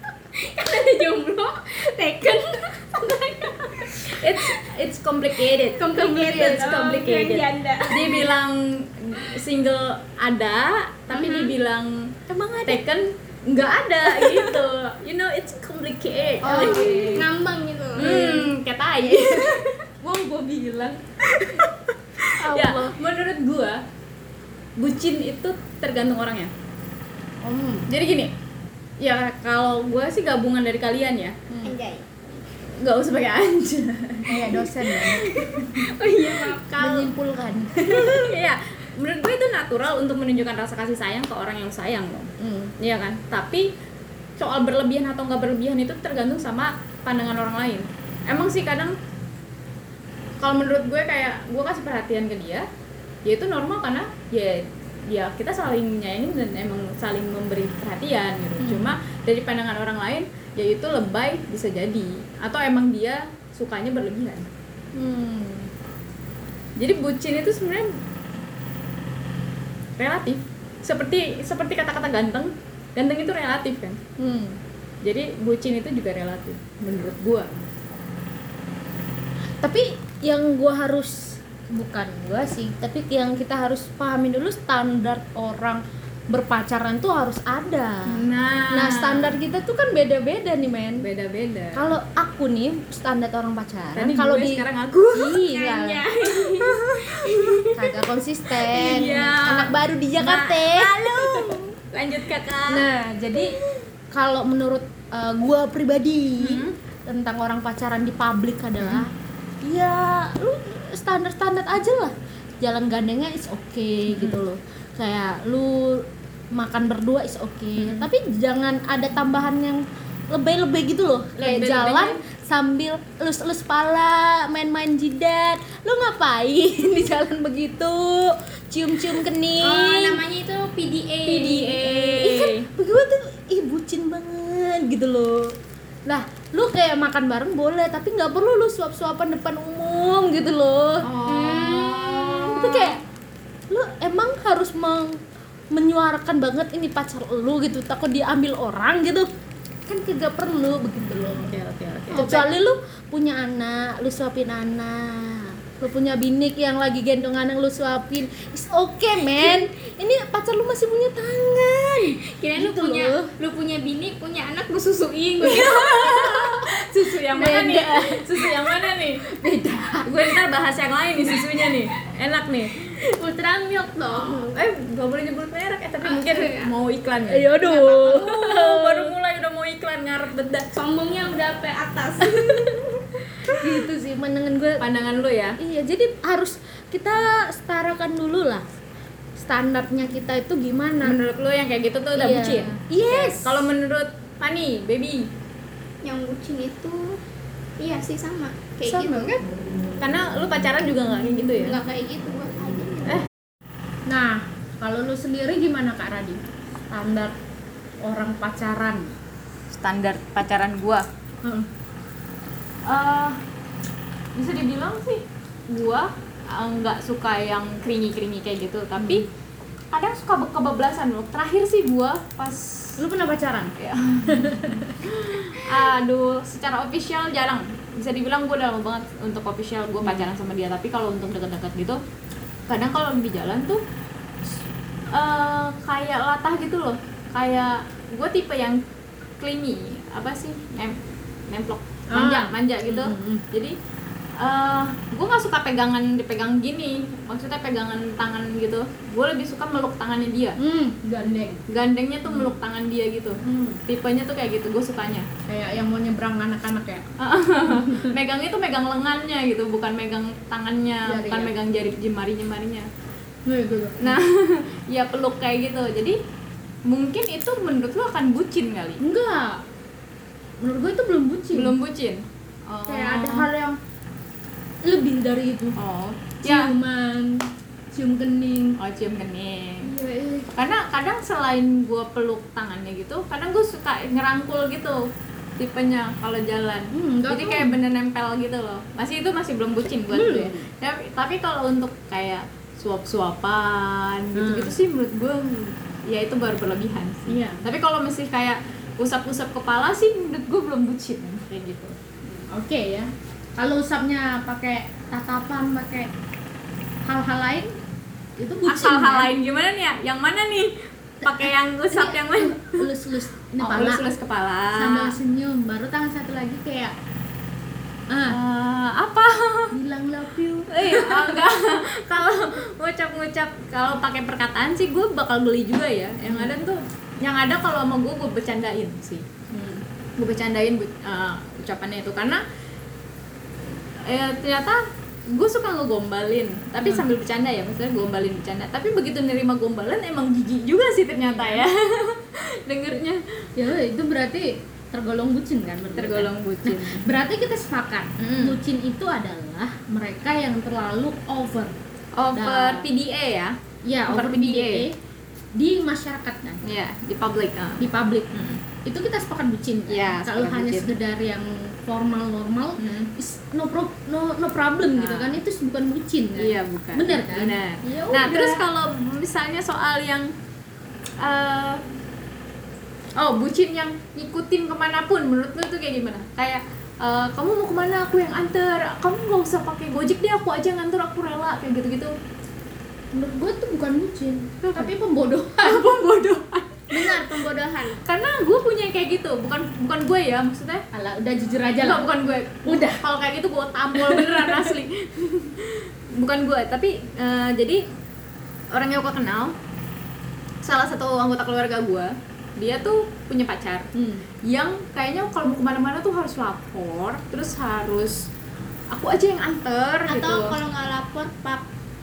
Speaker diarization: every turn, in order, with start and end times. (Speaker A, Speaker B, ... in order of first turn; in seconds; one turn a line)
Speaker A: 0.3-4.6
Speaker B: 4.1-17.3
Speaker A: 5.5-8.3
Speaker A: 11.1-11.5
Speaker C: 12.3-12.8
Speaker C: 16.4-17.2
Speaker A: 16.5-18.5
Speaker B: 17.9-19.8
Speaker C: 18.0-18.3
Speaker C: 20.0-21.0
Speaker B: 21.3-23.8
Speaker C: 22.4-23.0
Speaker B: 24.8-26.5
Speaker C: 27.4-27.9
Speaker B: 27.9-28.3
Speaker B: 29.0-31.4
Speaker C: 31.5-31.7
Speaker A: 31.6-32.1
Speaker B: 32.8-35.9
Speaker C: 34.3-35.3
Speaker A: 35.3-37.1
Speaker B: 36.5-36.9
Speaker C: 36.7-38.3
Speaker B: 37.9-43.7
Speaker C: 42.4-42.7
Speaker B: 44.4-49.0
Speaker B: 50.4-52.6
Speaker B: 53.2-64.5
Speaker C: 58.6-58.9
Speaker C: 65.0-65.7
Speaker B: 66.8-67.9
Speaker B: 70.0-74.0
Speaker C: 74.2-74.6
Speaker B: 75.0-77.5
Speaker C: 79.6-91.0
Speaker B: 88.1-89.3
Speaker B: 91.0-91.8
Speaker C: 91.7-96.0
Speaker B: 93.9-95.4
Speaker A: 95.5-97.7
Speaker B: 96.3-97.6
Speaker C: 97.7-100.9
Speaker B: 98.6-102.8
Speaker A: 101.1-101.6
Speaker C: 102.7-103.5
Speaker C: 104.1-109.1
Speaker B: 106.4-106.8
Speaker C: 109.6-130.2
Speaker B: 114.1-114.4
Speaker B: 117.8-118.1
Speaker B: 121.4-122.2
Speaker A: 129.6-131.8
Speaker B: 131.2-132.7
Speaker C: 131.8-135.5
Speaker C: 136.1-143.0
Speaker B: 141.0-143.0
Speaker C: 143.7-145.2
Speaker C: 145.7-149.3
Speaker C: 149.9-151.5
Speaker B: 151.0-152.5
Speaker C: 152.1-163.3
Speaker A: 162.4-166.3
Speaker B: 165.4-169.2
Speaker C: 165.5-166.4
Speaker C: 167.3-170.2
Speaker B: 170.0-172.8
Speaker C: 173.2-174.6
Speaker B: 174.1-180.7
Speaker A: 176.0-176.7
Speaker C: 177.3-179.1
Speaker A: 177.6-178.3
Speaker A: 180.7-182.8
Speaker C: 182.4-182.8
Speaker C: 183.5-184.8
Speaker B: 184.8-185.6
Speaker C: 185.6-188.6
Speaker C: 189.4-191.2
Speaker B: 191.0-195.3
Speaker C: 192.2-193.7
Speaker A: 196.0-197.2
Speaker A: 197.8-199.3
Speaker C: 198.8-199.5
Speaker B: 200.0-201.8
Speaker A: 201.6-203.2
Speaker C: 204.1-207.3
Speaker C: 208.0-209.1
Speaker B: 209.7-211.1
Speaker B: 212.8-213.4
Speaker B: 214.3-219.2
Speaker C: 219.0-219.2
Speaker B: 219.9-222.9
Speaker C: 223.0-225.0
Speaker B: 223.8-232.0
Speaker B: 232.7-233.8
Speaker B: 235.1-238.8
Speaker B: 239.4-241.0
Speaker B: 241.5-243.7
Speaker C: 242.1-243.4
Speaker B: 244.4-250.6
Speaker C: 250.6-251.7
Speaker B: 251.7-255.3
Speaker C: 253.4-253.8
Speaker C: 255.5-257.1
Speaker B: 257.2-262.9
Speaker C: 257.6-258.1
Speaker C: 261.0-261.5
Speaker C: 263.4-264.2
Speaker B: 264.0-266.2
Speaker B: 266.9-269.0
Speaker C: 269.0-269.6
Speaker C: 270.6-271.7
Speaker B: 271.5-273.5
Speaker C: 272.9-273.8
Speaker C: 274.8-275.8
Speaker B: 275.8-276.7
Speaker C: 276.4-278.8
Speaker B: 278.8-279.9
Speaker C: 279.8-280.5
Speaker B: 280.5-285.0
Speaker B: 285.6-301.9
Speaker C: 286.9-287.8
Speaker C: 290.1-290.7
Speaker C: 294.3-294.8
Speaker C: 297.3-297.6
Speaker C: 302.2-306.1
Speaker C: 307.1-307.7
Speaker C: 308.4-309.3
Speaker B: 308.6-312.8
Speaker C: 311.2-314.1
Speaker B: 313.6-315.2
Speaker C: 314.7-316.9
Speaker C: 318.1-318.4
Speaker B: 318.3-319.7
Speaker C: 319.7-321.4
Speaker B: 320.7-329.3
Speaker C: 326.2-326.5
Speaker C: 329.5-329.8
Speaker B: 330.2-332.4
Speaker B: 334.1-334.8
Speaker B: 335.3-343.2
Speaker C: 341.2-341.6
Speaker C: 343.6-351.7
Speaker B: 345.9-347.0
Speaker B: 348.2-348.6
Speaker B: 352.2-353.6
Speaker C: 352.3-352.9
Speaker C: 353.8-354.9
Speaker B: 354.1-354.9
Speaker C: 355.5-356.6
Speaker B: 356.6-358.6
Speaker C: 357.8-358.3
Speaker C: 358.8-368.6
Speaker B: 359.9-360.9
Speaker B: 362.8-363.1
Speaker B: 364.9-365.4
Speaker B: 366.4-370.3
Speaker B: 371.2-371.8
Speaker B: 373.1-382.1
Speaker C: 383.1-385.9
Speaker B: 384.6-384.9
Speaker B: 385.6-387.4
Speaker A: 386.9-388.0
Speaker B: 388.0-390.8
Speaker C: 390.9-392.1
Speaker B: 391.8-397.8
Speaker C: 392.6-393.0
Speaker C: 394.0-394.7
Speaker B: 398.7-399.5
Speaker B: 400.6-403.9
Speaker C: 403.9-404.2
Speaker B: 404.4-408.3
Speaker B: 408.9-410.6
Speaker A: 410.1-411.6